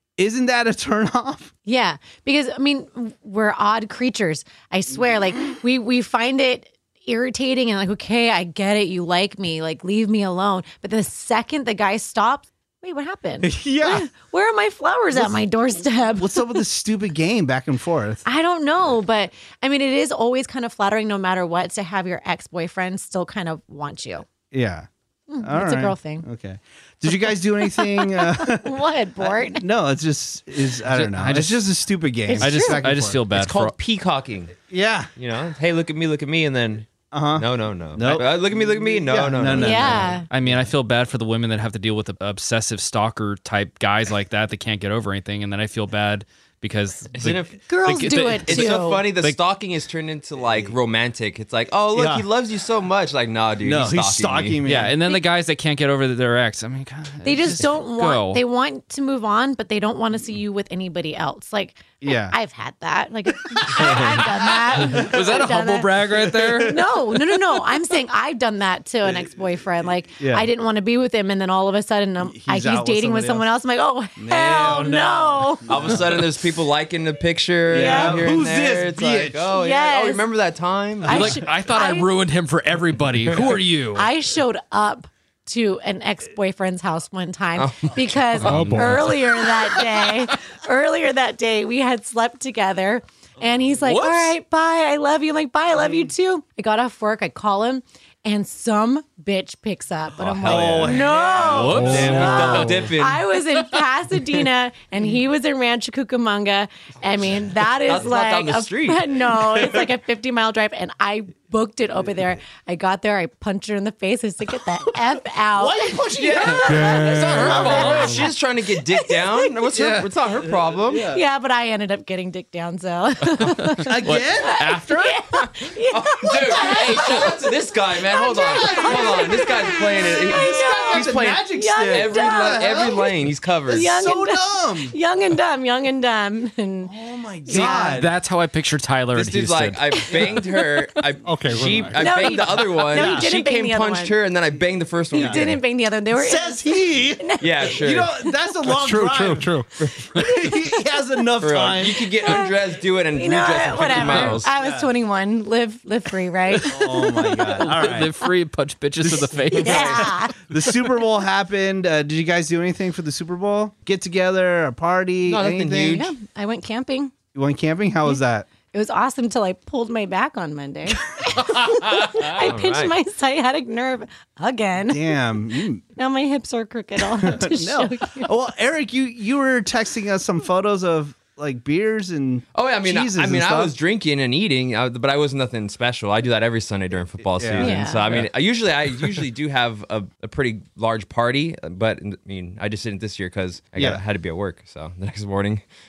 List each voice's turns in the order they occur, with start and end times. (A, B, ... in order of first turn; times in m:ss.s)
0:00.2-0:01.5 A
0:01.7-0:16.6 B
0:13.4-0:14.1 A
0:15.1-0:15.4 A
0:16.2-0:18.2 A
0:18.3-0:24.3 B
0:24.5-0:24.9 A
0:25.3-0:26.2 B
0:25.4-0:33.2 A
0:27.3-0:29.6 B
0:30.9-0:31.6 C
0:32.3-0:32.8 B
0:32.4-0:33.7 C
0:33.3-0:34.6 D
0:34.6-0:35.1 A
0:35.2-0:40.5 D
0:37.1-0:40.2 A
0:39.6-0:40.3 B
0:40.3-0:49.4 C
0:47.1-0:47.6 D
0:47.7-0:49.1 B
0:48.4-0:54.6 D
0:51.9-0:52.3 A
0:53.6-0:55.0 A
0:54.6-0:58.4 C
0:57.2-1:06.0 B
1:02.0-1:02.4 A
1:03.5-1:04.2 A
1:03.8-1:04.1 D
1:04.7-1:05.3 A
1:04.8-1:06.8 C
1:06.3-1:06.8 A
1:06.6-1:15.6 B
1:09.0-1:09.4 A
1:10.2-1:10.5 A
1:12.2-1:13.4 A
1:14.2-1:16.2 A
1:15.7-1:21.4 D
1:17.7-1:19.4 A
1:17.7-1:18.3 B
1:19.5-1:20.2 B
1:21.1-1:24.1 C
1:21.1-1:22.1 B
1:23.3-1:23.6 D
1:24.0-1:59.6 B
1:27.6-1:28.8 D
1:28.4-1:29.2 E
1:28.5-1:28.8 A
1:33.9-1:34.3 C
1:40.2-1:42.9 A
1:40.2-1:43.2 D
1:41.4-1:42.9 C
1:41.6-1:42.3 E
1:47.9-1:49.2 D
1:55.6-1:58.2 A
1:56.1-1:56.7 D
1:56.6-1:57.5 E
1:56.7-1:58.3 C
1:57.3-2:01.1 D
1:59.7-2:00.1 C
2:00.6-2:01.2 A
2:00.9-2:13.1 B
2:03.3-2:05.4 C
2:03.9-2:04.6 A
2:05.9-2:13.9 D
2:08.4-2:09.4 A
2:10.3-2:13.1 A
2:13.7-2:14.9 A
2:13.7-2:16.9 B
2:16.9-2:18.1 A
2:17.5-2:18.0 B
2:17.5-2:19.8 C
2:19.1-2:25.6 D
2:19.9-2:20.8 B
2:21.2-2:22.3 E
2:22.0-2:24.1 B
2:22.9-2:23.3 A
2:25.1-2:28.4 B
2:25.1-2:25.4 A
2:26.2-2:29.5 A
2:27.4-2:28.1 D
2:28.7-2:29.7 E
2:29.8-2:30.8 B
2:30.2-2:32.4 A
2:31.4-2:34.5 D
2:31.8-2:32.5 B
2:33.2-2:37.7 B
2:33.8-2:34.9 A
2:34.0-2:34.3 E
2:36.6-2:38.1 A
2:37.6-2:40.1 C
2:39.0-2:46.1 A
2:39.5-2:40.4 B
2:45.2-2:46.1 D
2:45.9-2:47.1 B
2:47.3-2:48.5 A
2:48.7-2:55.1 B
2:52.0-2:52.3 C
2:52.3-2:52.9 D
2:54.9-2:55.8 A
2:56.0-2:58.3 B
2:57.2-3:03.7 A
3:02.6-3:15.6 D
3:07.3-3:08.2 A
3:07.6-3:08.0 B
3:13.8-3:14.0 A